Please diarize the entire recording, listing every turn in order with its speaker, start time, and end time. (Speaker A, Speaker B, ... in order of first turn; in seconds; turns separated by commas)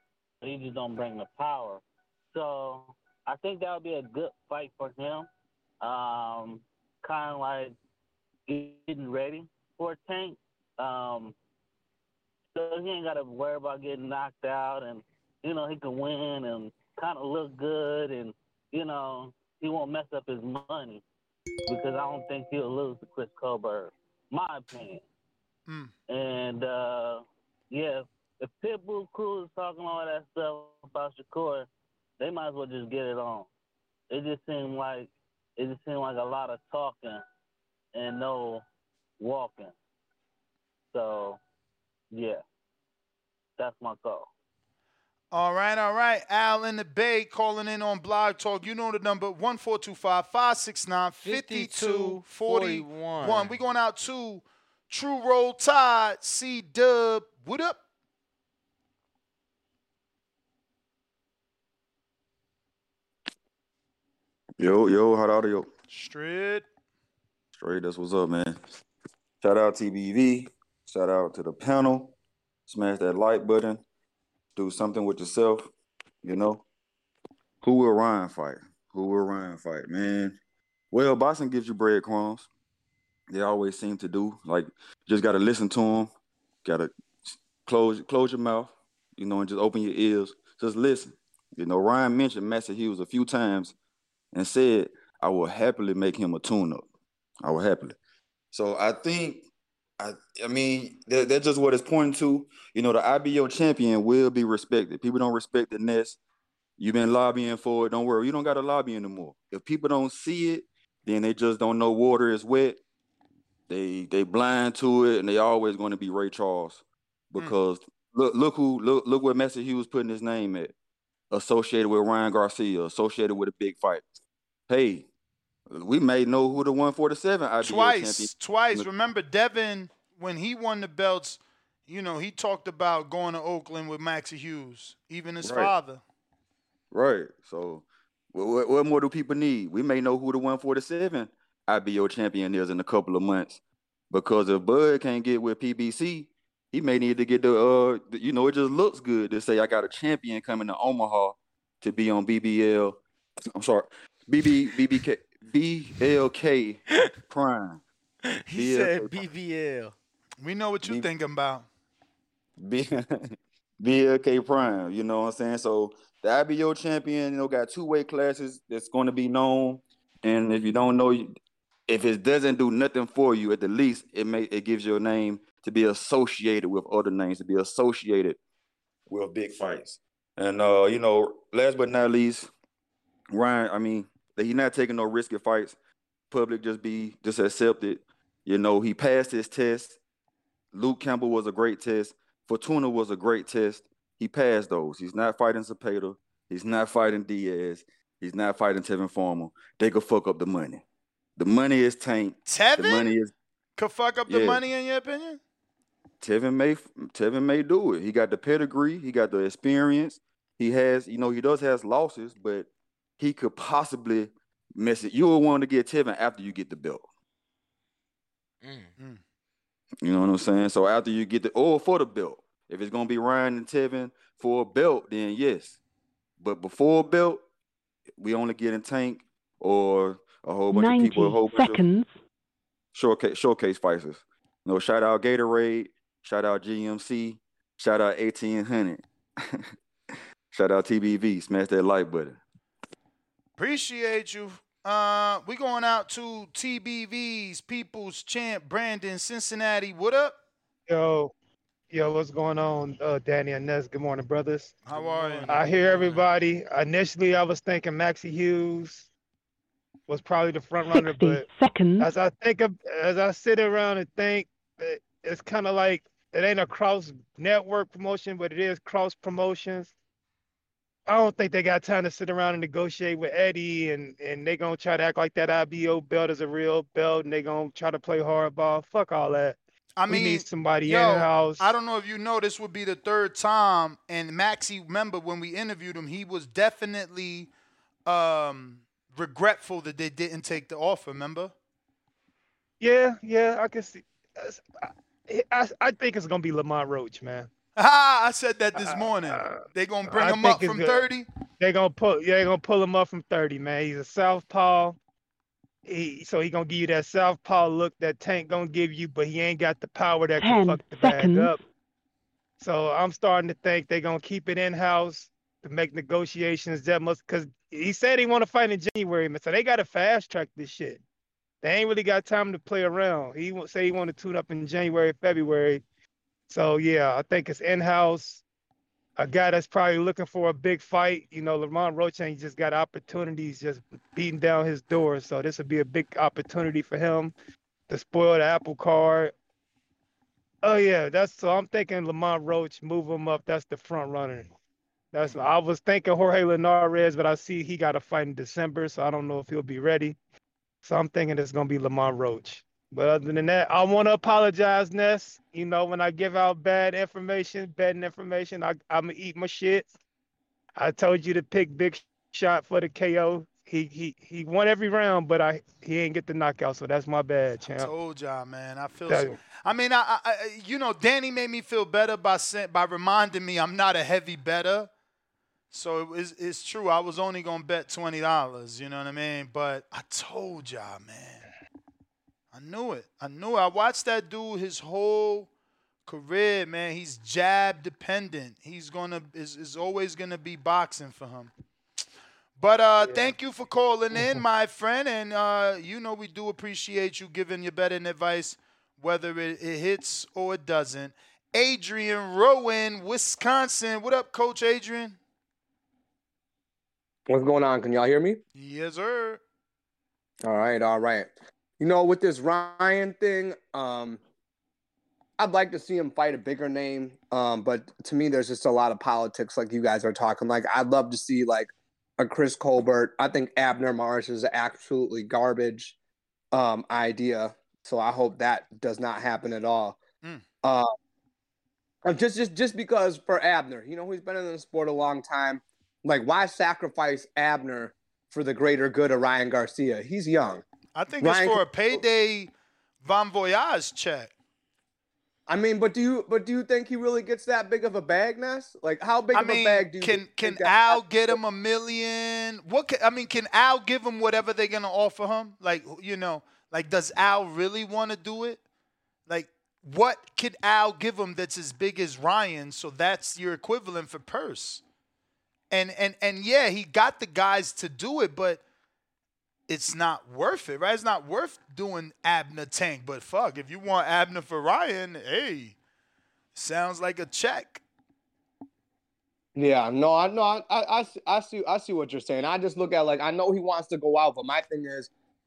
Speaker A: 0.4-1.8, Speaker A: 2.3-5.3, Speaker A: 5.8-7.7, Speaker A: 8.5-11.3, Speaker A: 12.5-21.0, Speaker A: 21.7-25.0, Speaker B: 25.7-25.9, Speaker A: 26.1-31.7, Speaker A: 32.2-33.5, Speaker A: 34.1-37.2, Speaker A: 37.9-38.6, Speaker A: 39.2-39.7, Speaker A: 40.9-41.4, Speaker A: 42.1-42.4, Speaker A: 43.6-44.3, Speaker B: 45.3-57.8, Speaker C: 51.2-53.5, Speaker D: 64.6-65.7, Speaker B: 65.9-66.7, Speaker D: 67.5-68.6, Speaker D: 69.4-72.1, Speaker D: 72.7-73.8, Speaker D: 74.5-75.7, Speaker D: 76.2-76.6, Speaker D: 77.6-80.4, Speaker D: 80.9-82.5, Speaker D: 83.3-86.1, Speaker D: 86.6-93.7, Speaker D: 94.3-96.8, Speaker D: 97.4-98.0, Speaker D: 98.5-99.4, Speaker D: 100.0-106.2, Speaker D: 106.8-112.8, Speaker D: 113.7-120.7, Speaker D: 121.3-124.0, Speaker D: 124.7-125.1, Speaker D: 125.7-128.8, Speaker B: 127.6-136.0, Speaker D: 135.4-135.7, Speaker D: 136.9-143.6, Speaker D: 144.1-153.0, Speaker D: 153.5-157.8, Speaker C: 158.3-159.9, Speaker B: 158.5-158.9, Speaker D: 158.6-159.0, Speaker B: 160.4-161.7, Speaker D: 162.6-163.2, Speaker D: 163.8-171.3, Speaker D: 171.9-178.4, Speaker D: 179.1-182.5, Speaker D: 183.3-185.7, Speaker D: 186.3-190.0, Speaker D: 190.7-200.8, Speaker D: 201.4-203.3, Speaker B: 202.5-203.2, Speaker B: 203.8-205.4, Speaker D: 204.3-204.6, Speaker D: 206.2-212.7, Speaker D: 213.2-217.1, Speaker C: 218.6-218.9, Speaker D: 220.0-225.8, Speaker D: 226.4-227.4, Speaker D: 228.2-231.8, Speaker E: 230.7-232.1, Speaker D: 232.9-239.0, Speaker D: 240.5-242.4, Speaker B: 243.6-250.4, Speaker F: 250.9-251.3, Speaker F: 251.9-254.8, Speaker B: 254.8-255.6, Speaker C: 254.9-256.2, Speaker F: 255.4-259.1, Speaker F: 260.1-261.4, Speaker E: 261.0-262.1, Speaker F: 262.0-269.9, Speaker F: 271.1-281.7, Speaker B: 280.0-287.5, Speaker B: 288.1-291.5, Speaker F: 292.8-297.5, Speaker B: 297.8-301.2, Speaker F: 298.8-301.0, Speaker F: 301.6-305.0, Speaker F: 305.9-311.6, Speaker E: 310.4-311.6, Speaker F: 312.6-321.0, Speaker F: 321.6-325.8, Speaker F: 326.5-328.4, Speaker F: 329.2-337.3, Speaker F: 337.9-339.3, Speaker F: 340.6-344.5, Speaker F: 345.1-350.1, Speaker F: 350.8-359.9, Speaker F: 360.8-367.9, Speaker B: 367.8-374.9, Speaker F: 369.1-369.4, Speaker B: 375.7-381.5, Speaker B: 382.5-385.5, Speaker B: 386.1-391.5, Speaker B: 392.6-405.2, Speaker G: 407.3-408.4, Speaker B: 408.5-409.4, Speaker G: 410.4-414.2, Speaker G: 415.4-425.9, Speaker G: 426.5-430.0, Speaker G: 430.6-430.9, Speaker G: 432.0-440.6, Speaker B: 440.9-442.5, Speaker G: 441.2-442.0, Speaker B: 443.0-444.3, Speaker G: 445.5-451.4, Speaker B: 449.3-458.6, Speaker B: 459.3-464.8, Speaker B: 465.7-468.6, Speaker B: 469.7-475.8, Speaker B: 476.5-477.8, Speaker G: 479.6-485.1